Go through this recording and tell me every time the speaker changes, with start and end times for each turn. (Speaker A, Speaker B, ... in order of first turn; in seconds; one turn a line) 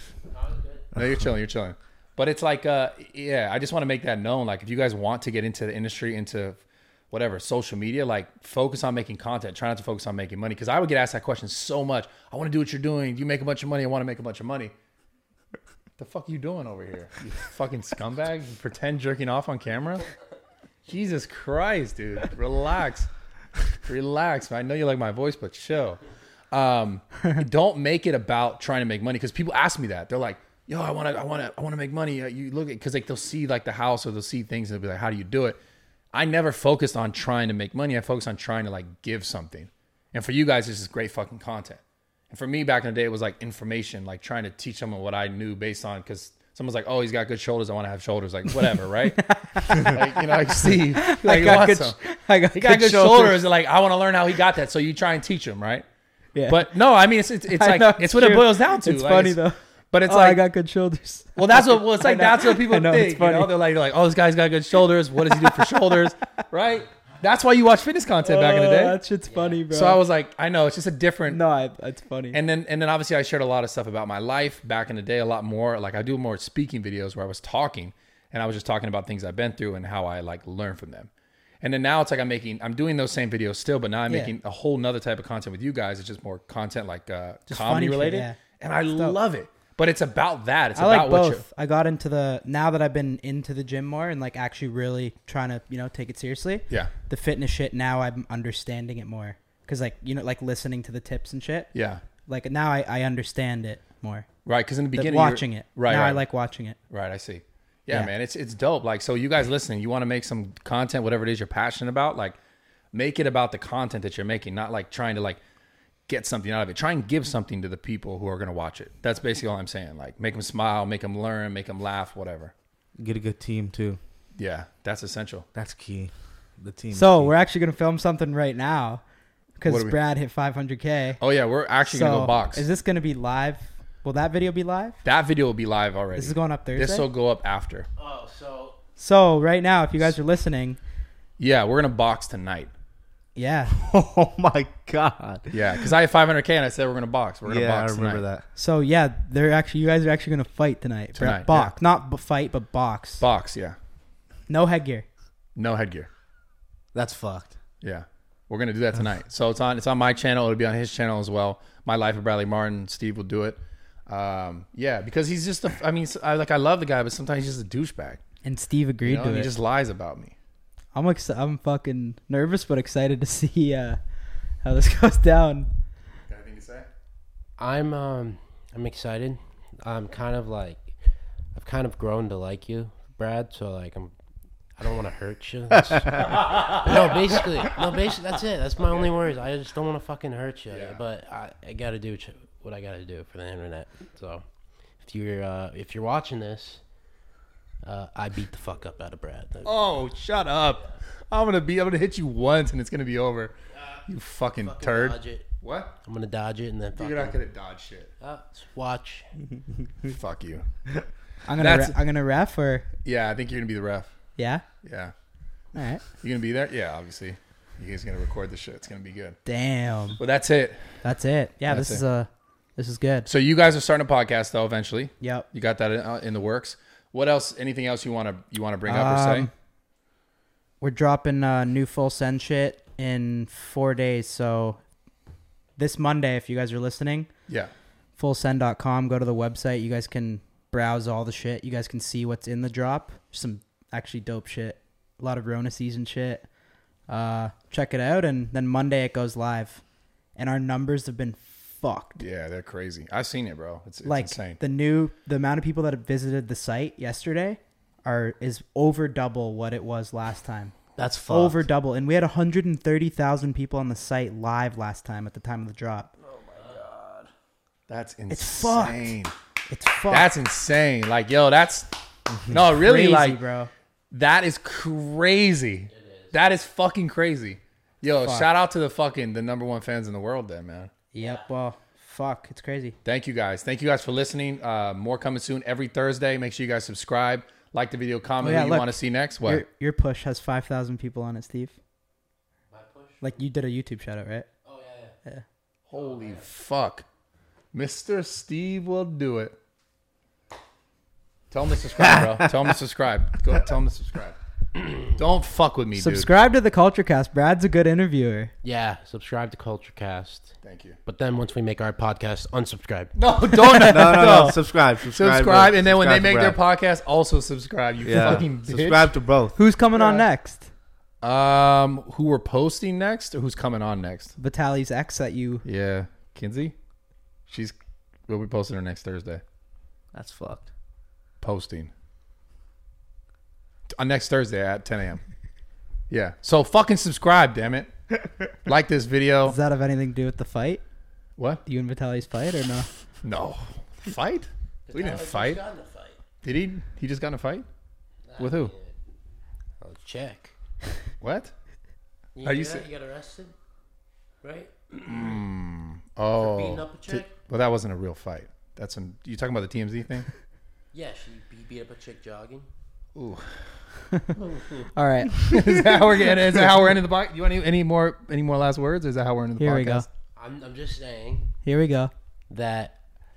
Speaker A: 0.3-0.9
Speaker B: 0.9-14.7
Speaker B: 16.0-20.1
Speaker B: 20.9-23.1
Speaker B: 23.8-26.0
Speaker B: 26.5-35.6
Speaker B: 36.1-52.0
Speaker C: 49.1-53.5
Speaker B: 52.5-55.9
Speaker C: 56.4-56.8
Speaker B: 56.5-60.4
Speaker C: 57.5-63.5
Speaker B: 61.4-69.0
Speaker C: 65.4-65.8
Speaker C: 68.2-70.0
Speaker A: 69.3-69.6
Speaker B: 69.7-71.4
Speaker C: 71.3-72.4
Speaker B: 72.3-81.1
Speaker B: 81.6-91.4
Speaker C: 87.5-88.4
Speaker C: 90.8-101.7
Speaker B: 101.7-102.0
Speaker C: 102.3-104.3
Speaker B: 104.5-106.2
Speaker C: 104.9-106.8
Speaker B: 106.9-112.4
Speaker B: 112.9-115.4
Speaker B: 116.1-122.5
Speaker D: 123.0-124.0
Speaker B: 124.4-125.5
Speaker D: 125.5-127.3
Speaker C: 126.9-129.0
Speaker C: 129.6-131.2
Speaker B: 129.7-130.0
Speaker B: 131.2-132.7
Speaker C: 131.8-135.0
Speaker B: 135.1-137.9
Speaker C: 136.2-137.1
Speaker A: 138.0-138.8
Speaker C: 139.0-140.8
Speaker B: 141.4-142.7
Speaker C: 143.4-143.8
Speaker D: 143.7-145.9
Speaker B: 145.5-148.2
Speaker D: 147.4-148.5
Speaker C: 148.6-153.2
Speaker B: 151.2-151.7
Speaker B: 153.2-153.8
Speaker C: 154.5-155.1
Speaker B: 155.6-156.1
Speaker D: 156.9-157.6
Speaker B: 157.8-168.2
Speaker C: 168.4-169.5
Speaker B: 169.1-170.4
Speaker C: 170.9-174.0
Speaker C: 174.6-175.7
Speaker B: 176.3-176.9
Speaker A: 177.6-181.0
Speaker A: 181.5-184.1
Speaker A: 184.8-194.5
Speaker B: 186.3-186.9
Speaker B: 188.8-189.2
Speaker B: 190.7-191.0
Speaker A: 195.0-196.8
Speaker A: 197.8-199.7
Speaker B: 199.7-203.6
Speaker B: 204.1-205.9
Speaker A: 204.6-205.5
Speaker A: 206.0-207.4
Speaker B: 207.0-208.1
Speaker A: 208.2-209.3
Speaker D: 209.5-210.1
Speaker B: 210.1-210.7
Speaker C: 211.4-212.9
Speaker B: 211.6-212.0
Speaker B: 213.1-214.1
Speaker C: 214.4-214.6
Speaker B: 214.8-215.1
Speaker C: 215.8-216.1
Speaker B: 216.2-219.4
Speaker C: 219.5-220.2
Speaker B: 220.2-221.0
Speaker C: 221.0-223.3
Speaker B: 221.7-222.0
Speaker B: 223.3-229.5
Speaker C: 225.2-225.5
Speaker C: 228.9-229.5
Speaker C: 230.8-234.8
Speaker C: 235.8-237.3
Speaker C: 238.2-246.5
Speaker C: 247.1-249.8
Speaker C: 250.4-252.2
Speaker B: 252.2-254.6
Speaker C: 254.1-266.2
Speaker D: 261.0-261.6
Speaker B: 266.4-266.9
Speaker A: 266.5-267.1
Speaker B: 267.9-269.3
Speaker C: 268.3-269.1
Speaker C: 269.7-270.3
Speaker B: 270.1-272.0
Speaker B: 272.5-273.4
Speaker C: 272.7-273.7
Speaker B: 274.1-280.9
Speaker A: 275.9-276.4
Speaker C: 278.2-278.5
Speaker C: 281.1-283.0
Speaker A: 281.2-281.5
Speaker B: 283.1-289.6
Speaker C: 288.4-291.8
Speaker A: 292.7-293.4
Speaker C: 293.2-294.5
Speaker A: 294.6-295.1
Speaker B: 295.9-297.1
Speaker A: 295.9-296.5
Speaker B: 297.7-299.6
Speaker B: 301.5-306.3
Speaker D: 302.0-302.5
Speaker C: 306.0-308.5
Speaker A: 308.6-313.1
Speaker B: 310.6-311.0
Speaker B: 313.1-319.1
Speaker C: 313.7-314.3
Speaker D: 313.9-316.6
Speaker D: 318.0-319.6
Speaker C: 319.6-320.7
Speaker B: 321.2-324.4
Speaker C: 324.4-325.7
Speaker B: 325.6-326.8
Speaker B: 327.5-327.8
Speaker B: 328.3-329.4
Speaker D: 330.1-330.7
Speaker B: 331.4-331.9
Speaker B: 333.9-335.2
Speaker B: 336.1-337.9
Speaker B: 338.6-339.6
Speaker C: 339.4-340.8
Speaker C: 341.7-342.9
Speaker B: 343.2-345.6
Speaker A: 344.9-346.2
Speaker B: 346.4-347.7
Speaker A: 348.3-349.0
Speaker B: 348.4-348.7
Speaker A: 349.8-350.5
Speaker B: 351.2-351.5
Speaker A: 352.4-353.5
Speaker B: 352.4-352.9
Speaker A: 354.4-355.4
Speaker B: 355.1-360.3
Speaker A: 356.4-357.3
Speaker A: 360.9-362.7
Speaker B: 363.1-363.6
Speaker A: 364.4-364.9
Speaker C: 365.0-366.1
Speaker B: 365.4-370.1
Speaker C: 369.6-370.1
Speaker A: 370.4-371.5
Speaker C: 371.6-372.1
Speaker A: 372.5-373.0